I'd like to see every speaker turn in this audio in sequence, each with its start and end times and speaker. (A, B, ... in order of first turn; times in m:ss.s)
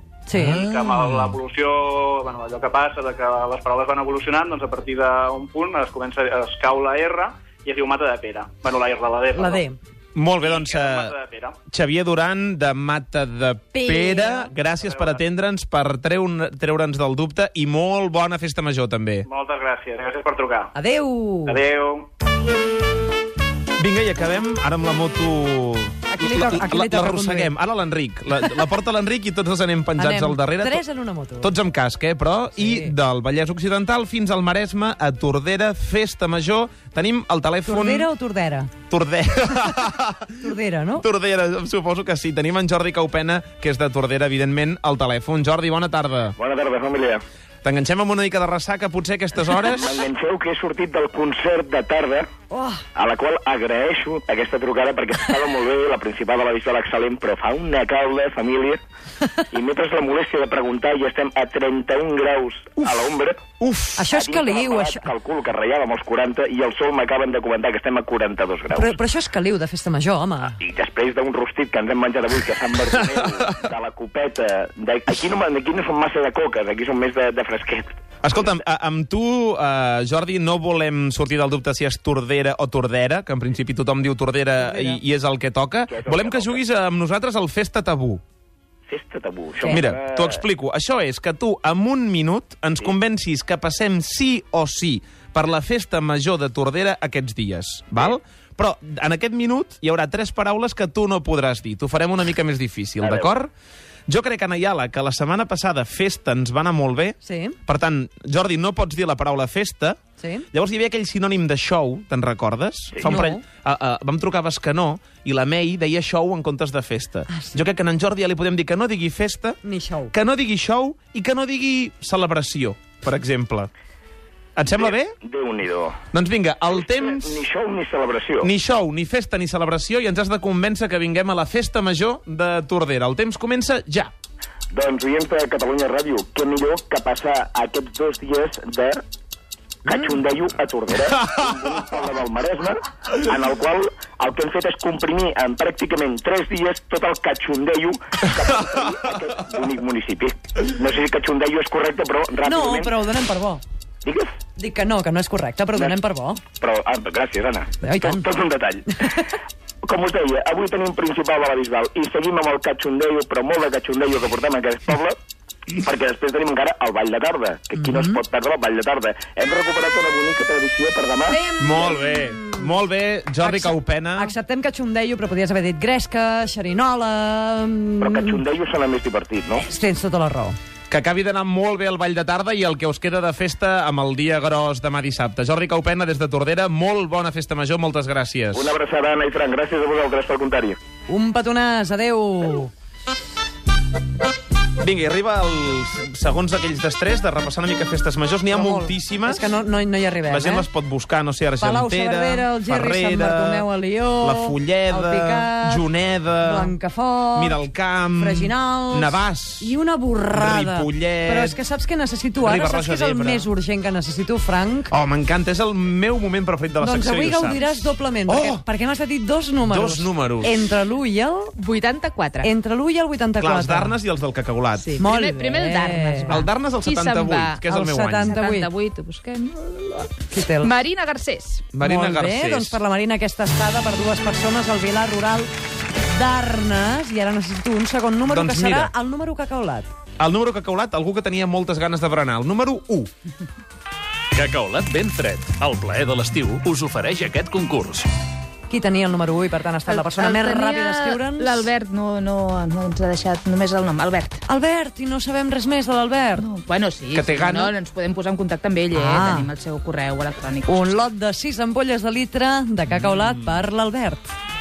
0:00.3-0:00.8 A
0:00.3-0:09.7 B
0:09.4-0:09.8 A
0:10.2-0:11.1 C
0:10.4-0:11.6 B
0:11.7-0:19.3 C
0:13.8-0:14.5 A
0:14.7-0:15.2 B
0:19.3-0:20.7 B
0:20.8-0:21.6 A
0:21.5-0:22.1 B
0:23.8-0:30.8 C
0:26.1-0:27.5 A
0:30.0-0:31.5 A
0:31.4-0:38.1 C
0:32.6-0:32.9 A
0:37.7-0:38.7 A
0:38.9-0:40.5 C
0:40.4-0:41.0 A
0:41.0-0:46.4 C
0:46.4-0:47.2 D
0:47.6-0:50.0 C
0:49.6-0:52.3 D
0:52.5-0:52.8 A
0:53.0-0:58.8 D
0:59.5-1:03.6 D
1:03.6-1:04.0 C
1:04.0-1:05.1 A
1:04.1-1:09.0 D
1:08.7-1:10.6 A
1:10.5-1:18.0 D
1:18.2-1:28.2 C
1:24.6-1:25.0 A
1:25.9-1:26.6 D
1:28.9-1:30.4 D
1:29.6-1:29.9 A
1:29.6-1:43.5 C
1:43.0-1:43.3 D
1:44.1-1:50.0 C
1:47.2-1:47.6 A
1:50.2-1:50.5 A
1:50.5-1:59.6 C
1:52.9-1:53.2 D
1:53.0-1:53.4 A
1:57.3-1:57.6 A
1:59.6-2:00.1 A
2:00.1-2:03.7 C
2:04.6-2:05.1 C
2:04.7-2:06.0 D
2:06.1-2:07.4 C
2:06.8-2:08.5 D
2:08.4-2:14.1 C
2:14.7-2:19.0 D
2:19.8-2:33.0 D
2:32.4-2:33.6 A
2:34.6-2:36.4 A
2:36.6-2:38.9 D
2:37.8-2:38.3 A
2:39.8-2:45.2 D
2:45.8-2:51.4 D
2:47.8-2:48.2 A
2:51.3-2:52.8 A
2:51.6-2:54.3 C
2:53.4-2:58.4 A
2:58.0-2:59.6 D
2:59.6-3:00.6 A
3:00.9-3:08.8 C
3:08.5-3:10.8 D
3:11.1-3:12.7 A
3:14.8-3:19.4 C
3:18.5-3:20.7 A
3:20.3-3:23.7 C
3:21.6-3:25.8 A
3:24.2-3:26.7 C
3:26.4-3:27.6 A
3:27.4-3:29.8 C
3:28.2-3:34.9 A
3:30.3-3:31.6 C
3:32.4-3:33.5 C
3:34.9-3:38.6 C
3:36.8-3:41.6 A
3:39.7-3:40.6 C
3:41.6-3:42.5 E
3:42.4-3:43.9 A
3:43.4-3:45.0 C
3:44.8-3:47.6 E
3:45.0-3:46.4 A
3:46.3-3:48.4 C
3:47.7-3:48.7 A
3:48.2-3:51.6 E
3:50.3-3:50.8 A
3:51.7-3:52.8 C
3:51.8-3:55.5 A
3:56.1-3:59.9 A
3:58.2-3:58.9 C
4:00.2-4:03.1 C
4:04.4-4:08.1 F
4:08.7-4:11.7 A
4:09.9-4:14.4 E
4:14.5-4:16.5 A
4:16.4-4:20.7 E
4:19.0-4:19.5 A
4:20.6-4:24.3 A